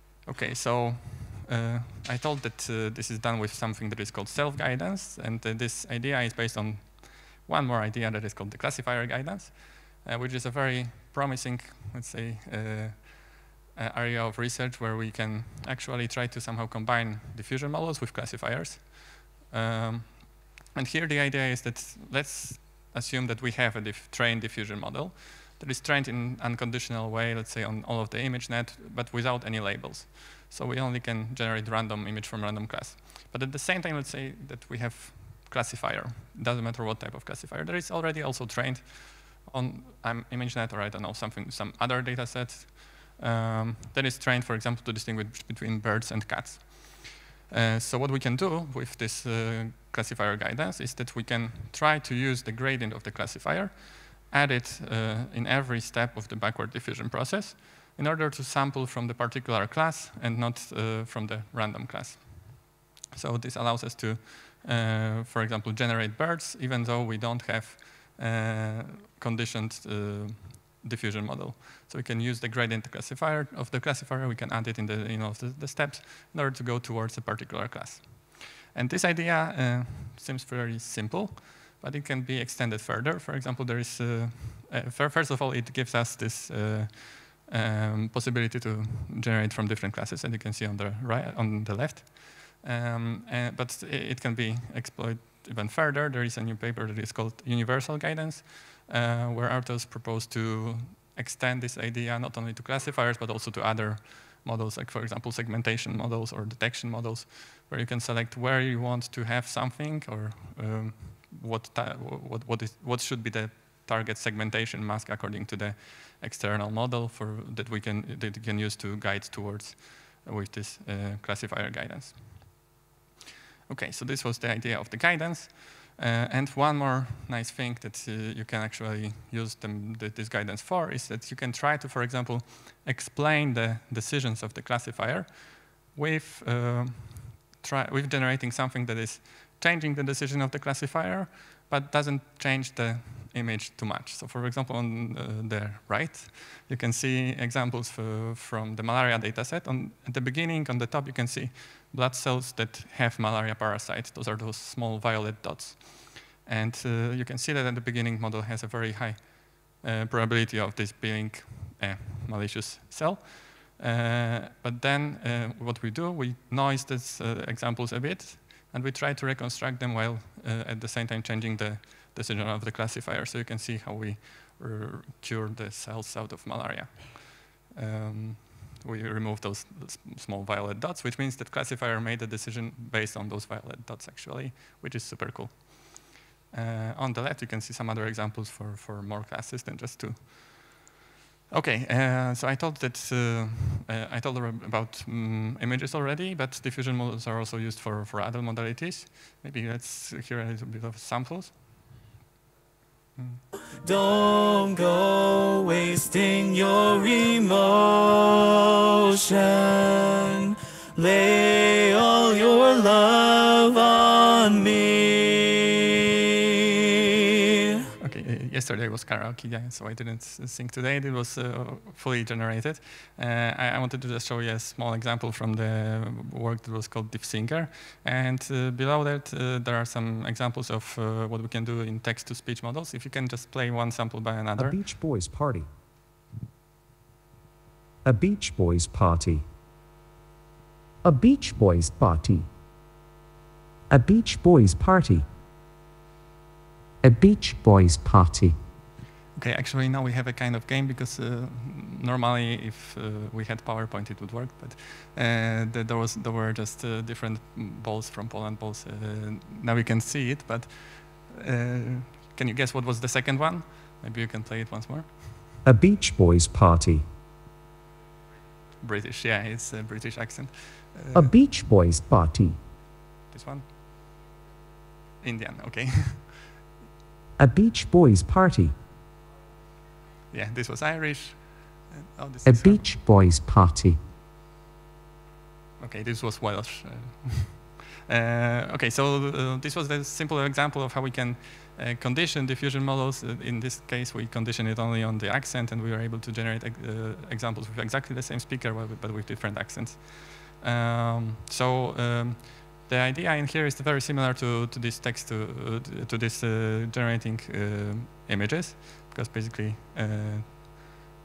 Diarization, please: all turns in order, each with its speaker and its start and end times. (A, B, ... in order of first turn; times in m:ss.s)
0:00.2-2:02.5 A
2:03.7-3:10.8 A
3:11.5-3:21.6 A
3:23.2-3:23.4 A
3:23.8-3:35.9 B
3:37.9-3:54.8 A
3:54.6-3:55.6 C
3:58.0-3:59.4 C
4:01.0-4:02.4 C
4:03.9-4:05.2 C
4:07.0-4:08.5 C
4:09.4-4:25.3 A
4:25.6-4:27.0 C
4:28.8-4:31.3 A
4:31.1-4:32.6 C
4:33.3-4:33.7 A
4:35.2-4:36.5 A
4:37.4-4:38.7 C
4:40.3-4:42.9 A
4:42.4-4:44.0 C
4:45.8-5:10.8 A